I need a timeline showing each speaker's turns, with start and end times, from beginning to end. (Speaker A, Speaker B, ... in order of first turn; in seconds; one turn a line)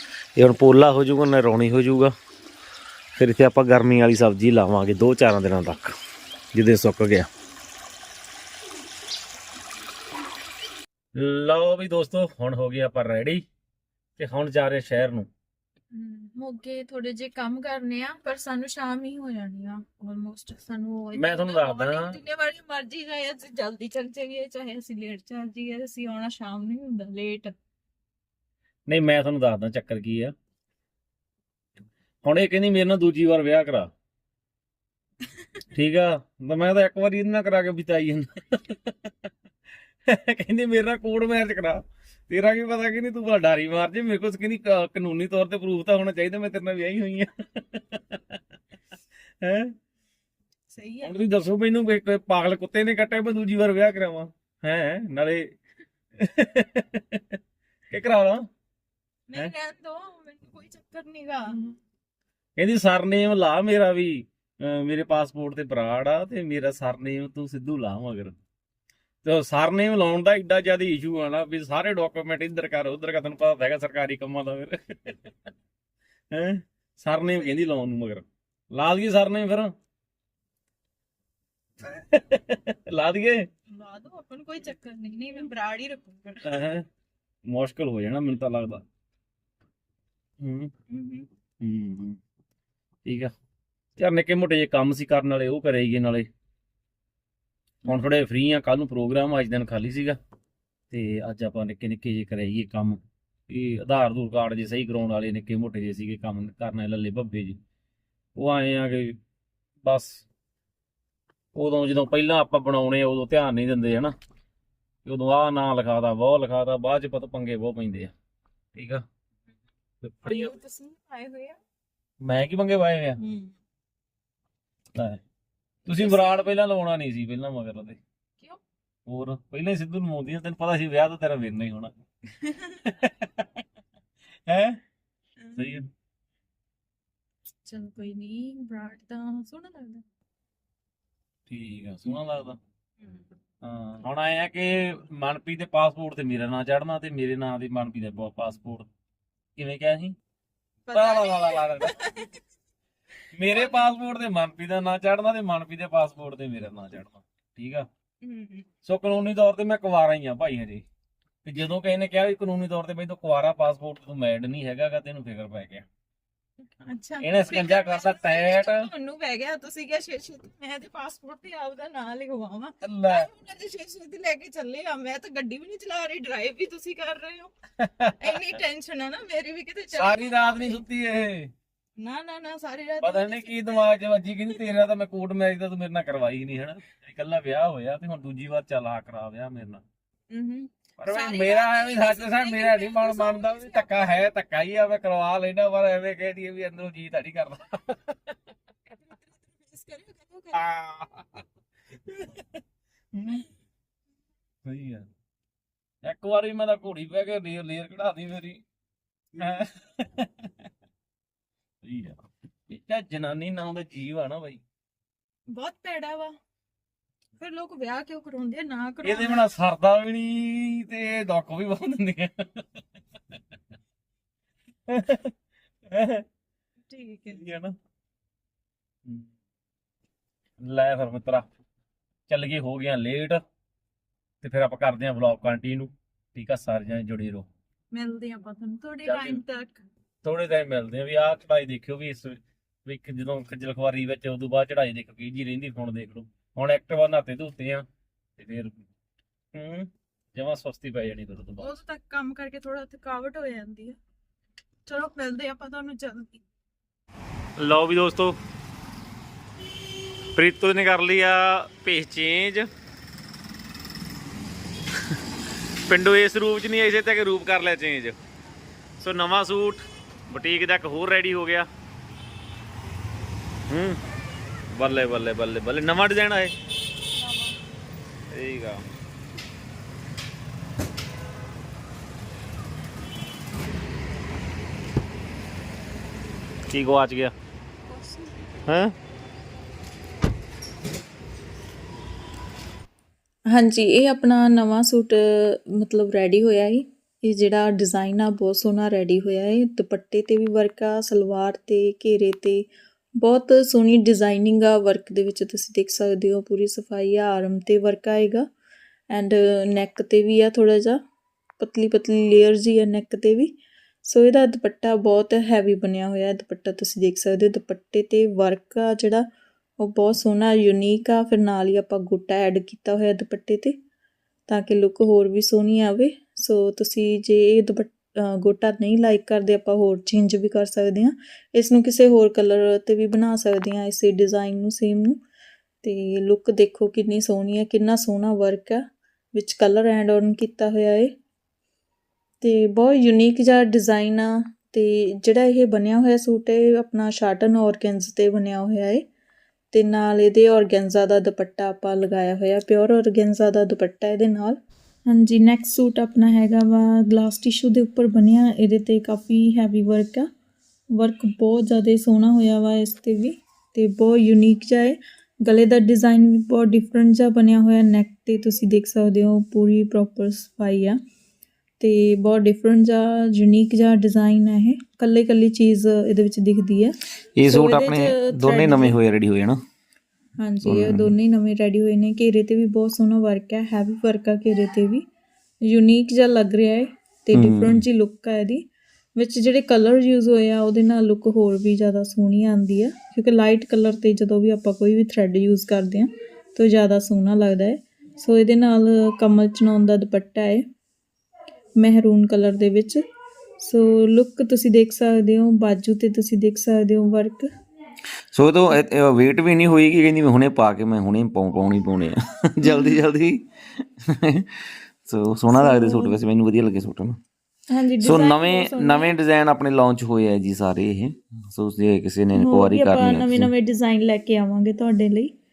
Speaker A: 0.4-2.1
Speaker A: 3.2-5.9
Speaker A: 6.5-7.2
Speaker A: 11.1-13.4
Speaker A: 14.2-15.3
Speaker B: 15.9-27.5
Speaker A: 21.1-22.2
Speaker A: 28.9-30.3
Speaker A: 32.2-33.9
Speaker A: 35.7-38.8
Speaker A: 40.1-48.2
Speaker A: 49.4-49.7
Speaker B: 50.7-51.2
Speaker A: 51.0-55.5
Speaker A: 56.2-57.2
Speaker A: 57.9-58.5
Speaker B: 59.3-61.6
Speaker A: 62.6-68.3
Speaker A: 69.2-75.1
Speaker A: 76.3-79.7
Speaker A: 81.9-83.5
Speaker B: 83.7-86.5
Speaker A: 86.4-86.8
Speaker A: 87.5-88.8
Speaker A: 90.4-90.7
Speaker B: 90.9-91.3
Speaker A: 91.6-92.2
Speaker A: 93.0-93.3
Speaker A: 94.0-96.3
Speaker A: 97.9-100.2
Speaker A: 100.9-107.6
Speaker A: 108.3-109.2
Speaker A: 109.8-110.2
Speaker A: 111.5-114.1
Speaker A: 115.0-118.1
Speaker A: 118.7-119.0
Speaker A: 120.0-120.5
Speaker B: 120.2-121.6
Speaker A: 122.2-123.2
Speaker B: 123.2-123.5
Speaker A: 125.8-128.0
Speaker B: 125.9-126.5
Speaker A: 129.1-131.9
Speaker A: 132.9-133.4
Speaker A: 134.5-134.8
Speaker A: 135.5-135.9
Speaker B: 137.6-140.0
Speaker A: 141.5-142.6
Speaker A: 143.6-148.9
Speaker A: 149.6-150.2
Speaker B: 150.9-152.3
Speaker A: 150.9-152.1
Speaker A: 153.3-157.9
Speaker B: 153.5-153.8
Speaker B: 158.2-158.6
Speaker A: 158.8-160.8
Speaker A: 161.4-165.8
Speaker B: 166.8-177.5
Speaker A: 167.2-168.9
Speaker A: 172.8-173.3
Speaker A: 177.8-178.6
Speaker B: 178.2-180.8
Speaker A: 179.9-181.5
Speaker B: 182.0-184.6
Speaker A: 183.0-189.8
Speaker B: 190.3-194.3
Speaker A: 191.0-198.1
Speaker B: 199.1-200.6
Speaker A: 200.5-201.4
Speaker A: 202.1-202.5
Speaker A: 203.1-203.5
Speaker A: 204.6-205.1
Speaker A: 206.0-208.6
Speaker A: 209.4-210.3
Speaker A: 211.8-212.2
Speaker A: 212.7-214.6
Speaker B: 215.5-216.3
Speaker B: 217.4-219.5
Speaker A: 219.0-222.6
Speaker A: 224.9-225.3
Speaker A: 225.9-226.2
Speaker B: 226.9-227.4
Speaker A: 227.3-227.7
Speaker A: 230.6-231.4
Speaker A: 232.3-233.4
Speaker A: 234.4-237.5
Speaker B: 237.9-239.8
Speaker A: 239.0-239.4
Speaker A: 240.2-247.8
Speaker A: 248.4-248.8
Speaker A: 249.5-251.7
Speaker B: 251.6-254.0
Speaker B: 254.8-256.4
Speaker A: 257.6-258.4
Speaker A: 260.3-262.7
Speaker A: 265.9-268.1
Speaker A: 269.0-271.7
Speaker A: 273.7-274.0
Speaker A: 274.7-276.5
Speaker B: 277.2-277.5
Speaker A: 278.3-278.8
Speaker A: 286.7-287.3
Speaker B: 287.9-288.3
Speaker A: 288.7-288.9
Speaker B: 293.5-302.7
Speaker B: 303.2-308.4
Speaker B: 309.1-311.0
Speaker B: 311.6-319.2
Speaker B: 319.8-323.7
Speaker B: 324.5-335.2
Speaker B: 335.8-338.8
Speaker B: 339.3-341.1
Speaker B: 342.4-349.0
Speaker B: 349.7-360.3
Speaker B: 360.9-371.0
Speaker B: 371.8-379.0
Speaker C: 377.6-378.1
Speaker A: 377.6-377.9
Speaker A: 378.5-379.5
Speaker C: 378.8-379.5
Speaker B: 380.4-385.0
Speaker C: 380.7-381.1
Speaker B: 385.6-388.6
Speaker C: 387.3-387.7
Speaker B: 389.1-400.6
Speaker B: 401.8-403.0
Speaker B: 403.6-407.5
Speaker C: 408.3-412.1
Speaker A: 408.8-412.0
Speaker B: 412.6-413.0
Speaker C: 412.7-413.4
Speaker C: 415.1-417.1
Speaker B: 415.5-416.2
Speaker B: 417.7-419.1
Speaker C: 418.0-423.5
Speaker B: 422.3-425.3